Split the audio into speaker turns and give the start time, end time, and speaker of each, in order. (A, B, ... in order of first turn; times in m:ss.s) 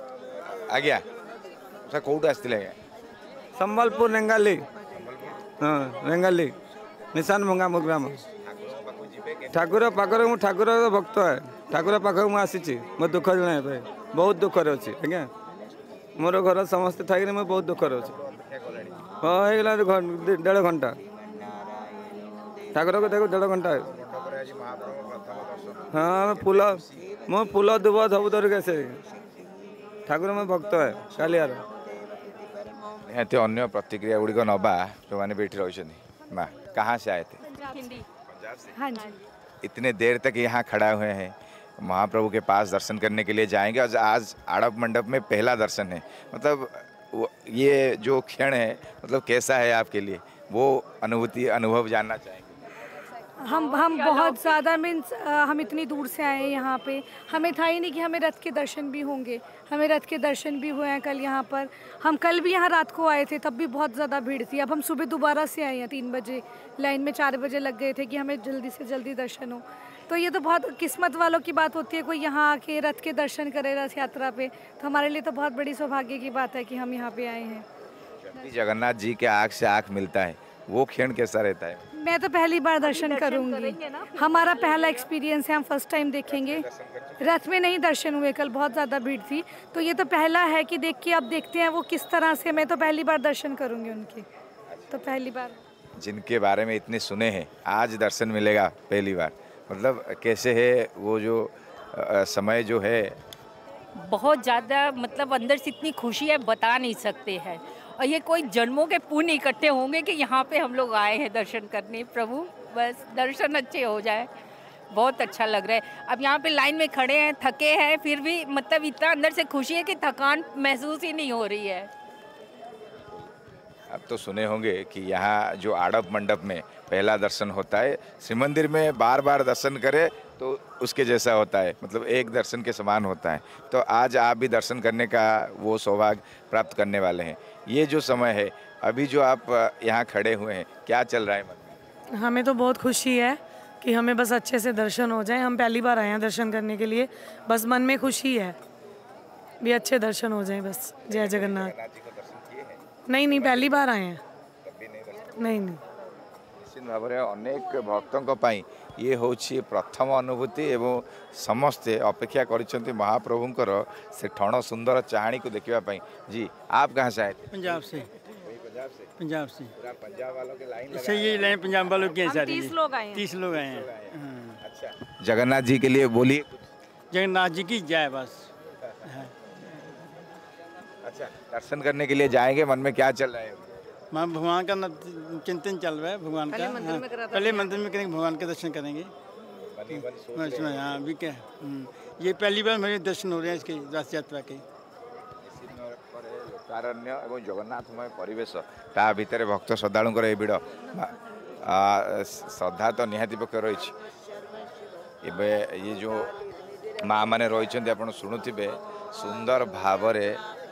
0:00.5-0:01.0 A
0:01.8-0:02.8 A
0:03.6-0:04.6 B
0:04.9-0:05.5 A
0:05.6-0:06.5 B
0:07.1-0:08.2 B
0:08.4-0:10.3 A
0:09.5-0:15.3 B
0:16.2-0:18.1 B
0:18.0-0:19.2 A
0:19.2-0:21.0 B
0:22.7-0:23.8 B
0:23.8-0:27.1 A
0:25.9-0:29.0 B
0:30.1-0:31.6 B
0:33.0-0:37.4 A
0:37.5-0:38.0 C
0:38.3-0:38.8 A
0:38.8-0:39.2 D
0:39.6-0:52.6 A
0:53.4-1:17.6 D
0:53.4-0:54.6 C
1:18.2-1:21.8 A
1:21.9-1:26.6 D
1:22.8-1:25.0 C
1:26.2-1:27.3 A
1:27.2-1:34.2 D
1:34.9-1:35.6 D
1:36.0-1:43.2 A
1:44.0-1:54.3 C
1:54.9-2:01.9 C
2:03.9-2:21.8 A
2:22.1-2:28.6 E
2:29.6-2:31.7 E
2:31.0-2:33.8 A
2:33.1-2:34.2 E
2:34.6-2:35.5 A
2:35.4-2:35.8 E
2:36.6-2:49.1 A
2:47.5-2:48.1 F
2:49.2-2:49.7 F
2:49.8-2:52.2 A
2:50.9-2:54.6 F
2:53.5-2:56.6 A
2:57.1-2:58.5 F
2:59.0-2:59.3 F
3:01.0-3:03.8 A
3:04.1-3:09.1 F
3:09.7-3:11.0 A
3:09.9-3:14.6 F
3:15.4-3:23.9 A
3:25.2-3:26.3 A
3:27.0-3:30.4 A